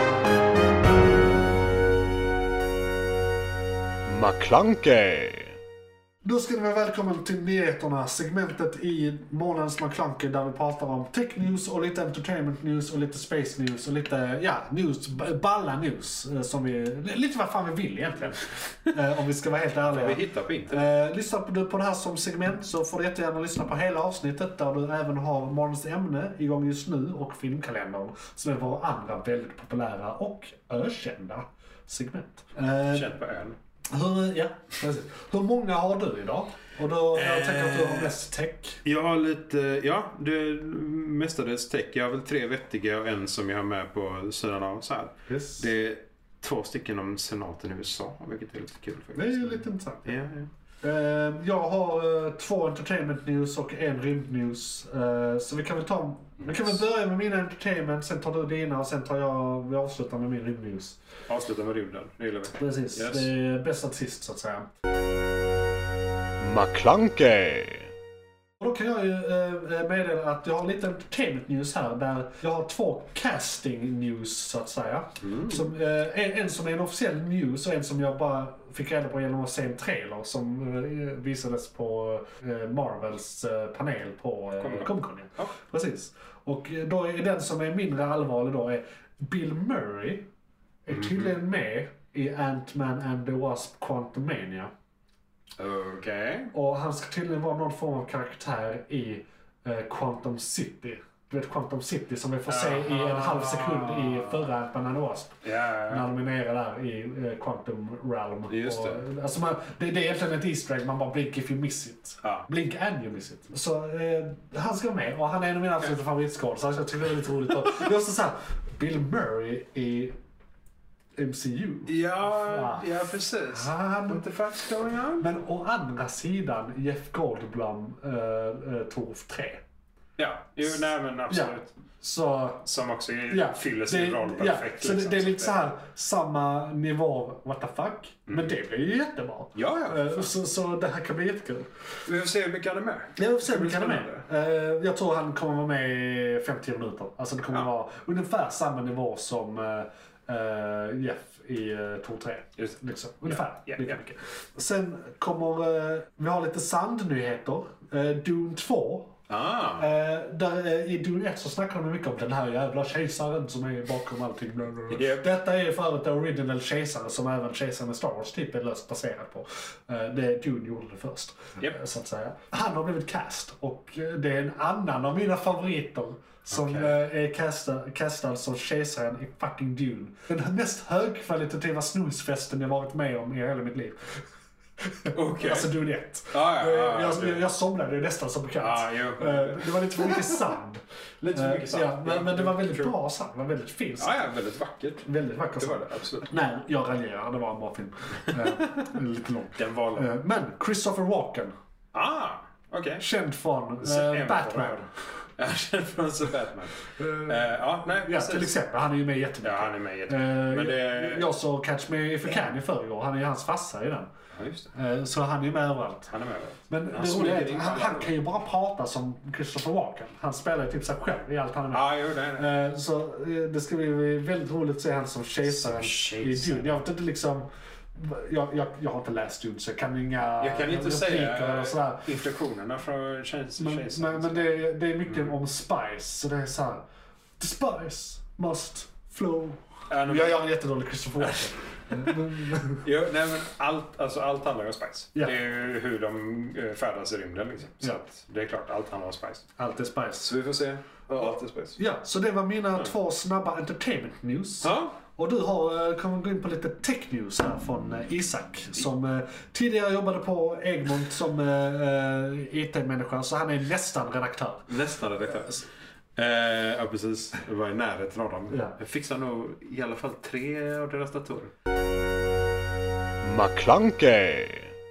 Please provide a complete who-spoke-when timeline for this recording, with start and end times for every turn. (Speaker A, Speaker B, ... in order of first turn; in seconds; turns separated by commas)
Speaker A: 4.1-5.6, Speaker B: 6.2-33.1, Speaker C: 19.9-20.8, Speaker C: 32.9-33.6, Speaker B: 33.9-38.8, Speaker C: 37.1-38.2, Speaker C: 38.9-50.5, Speaker B: 45.3-45.7, Speaker B: 49.1-50.1, Speaker B: 50.8-61.0, Speaker C: 56.4-56.7, Speaker C: 61.3-63.3, Speaker B: 62.6-64.7, Speaker A: 66.4-67.9, Speaker B: 68.6-90.3, Speaker C: 75.2-75.7, Speaker C: 84.6-85.5, Speaker B: 90.9-94.7, Speaker C: 90.9-91.3, Speaker C: 95.6-96.5, Speaker B: 96.5-105.4, Speaker C: 102.5-104.5, Speaker C: 105.4-106.0, Speaker B: 105.9-120.2, Speaker C: 108.5-109.0, Speaker B: 121.2-124.2, Speaker C: 121.9-125.3, Speaker B: 125.2-129.6, Speaker C: 130.2-131.7, Speaker B: 131.3-132.6, Speaker C: 132.6-135.7, Speaker B: 133.3-141.7, Speaker C: 139.6-140.3, Speaker C: 142.1-144.3, Speaker B: 143.2-159.2, Speaker C: 152.6-154.0, Speaker C: 159.3-159.9, Speaker B: 159.8-184.2, Speaker C: 164.9-165.2, Speaker C: 176.5-176.9, Speaker B: 184.8-190.8, Speaker C: 185.1-185.7, Speaker C: 186.3-187.4, Speaker C: 188.6-190.5, Speaker C: 191.2-192.9, Speaker B: 191.3-194.2, Speaker C: 194.0-196.3, Speaker B: 195.1-201.5, Speaker C: 198.3-198.9, Speaker C: 199.6-200.1, Speaker C: 201.9-203.0, Speaker B: 203.0-204.8, Speaker C: 203.8-208.5, Speaker B: 207.0-207.4, Speaker B: 208.0-214.1, Speaker C: 209.4-211.3, Speaker C: 214.3-214.7, Speaker B: 214.7-216.1, Speaker C: 216.1-218.1, Speaker B: 216.7-232.1, Speaker C: 221.7-222.5, Speaker C: 225.4-226.8, Speaker C: 230.4-235.3, Speaker B: 233.6-236.8, Speaker B: 237.4-242.8, Speaker C: 239.9-240.4, Speaker C: 241.2-242.2, Speaker C: 242.8-249.5, Speaker B: 249.6-250.3, Speaker C: 250.2-251.8, Speaker B: 251.8-264.7, Speaker C: 254.6-255.0, Speaker C: 264.7-271.5, Speaker B: 268.5-268.8, Speaker A: 273.2-274.7